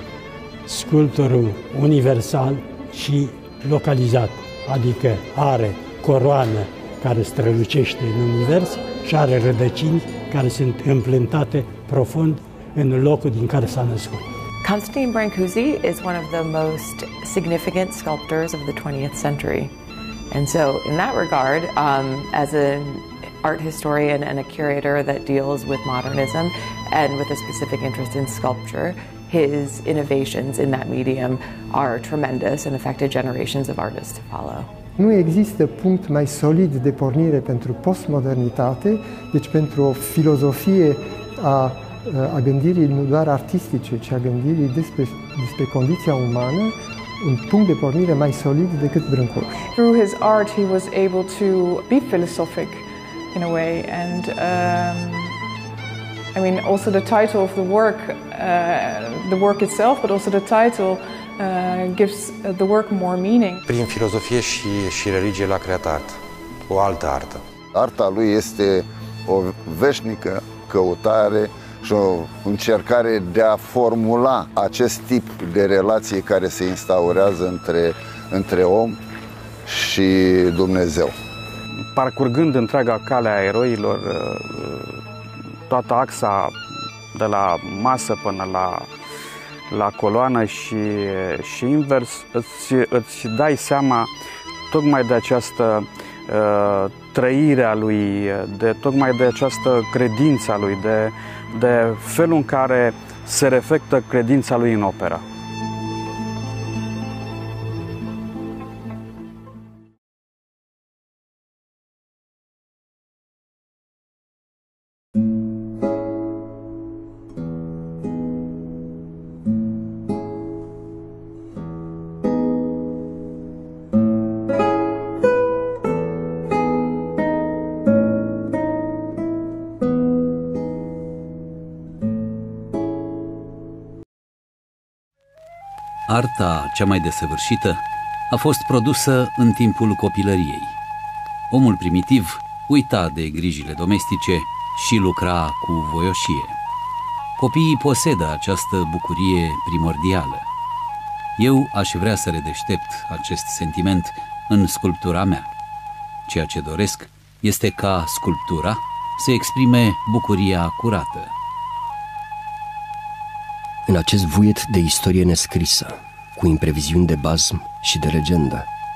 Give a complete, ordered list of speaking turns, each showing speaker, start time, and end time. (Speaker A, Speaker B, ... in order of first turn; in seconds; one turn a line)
Speaker A: 0.7-14.3
Speaker B: 14.6-19.7
Speaker B: 20.3-34.7
Speaker C: 35.0-49.7
Speaker D: 49.8-55.4
Speaker D: 56.3-63.6
Speaker E: 63.6-66.2
Speaker E: 66.7-67.4
Speaker F: 67.7-79.0
Speaker F: 79.7-81.1
Speaker G: 81.9-85.0
Speaker G: 85.7-86.5
Speaker G: 87.1-88.9
Speaker G: 89.7-94.1
Speaker G: 94.7-105.2
Speaker H: 136.1-140.8
Speaker H: 141.5-146.6
Speaker H: 147.4-150.4
Speaker H: 151.4-155.5
Speaker H: 156.3-161.3
Speaker I: 163.8-168.7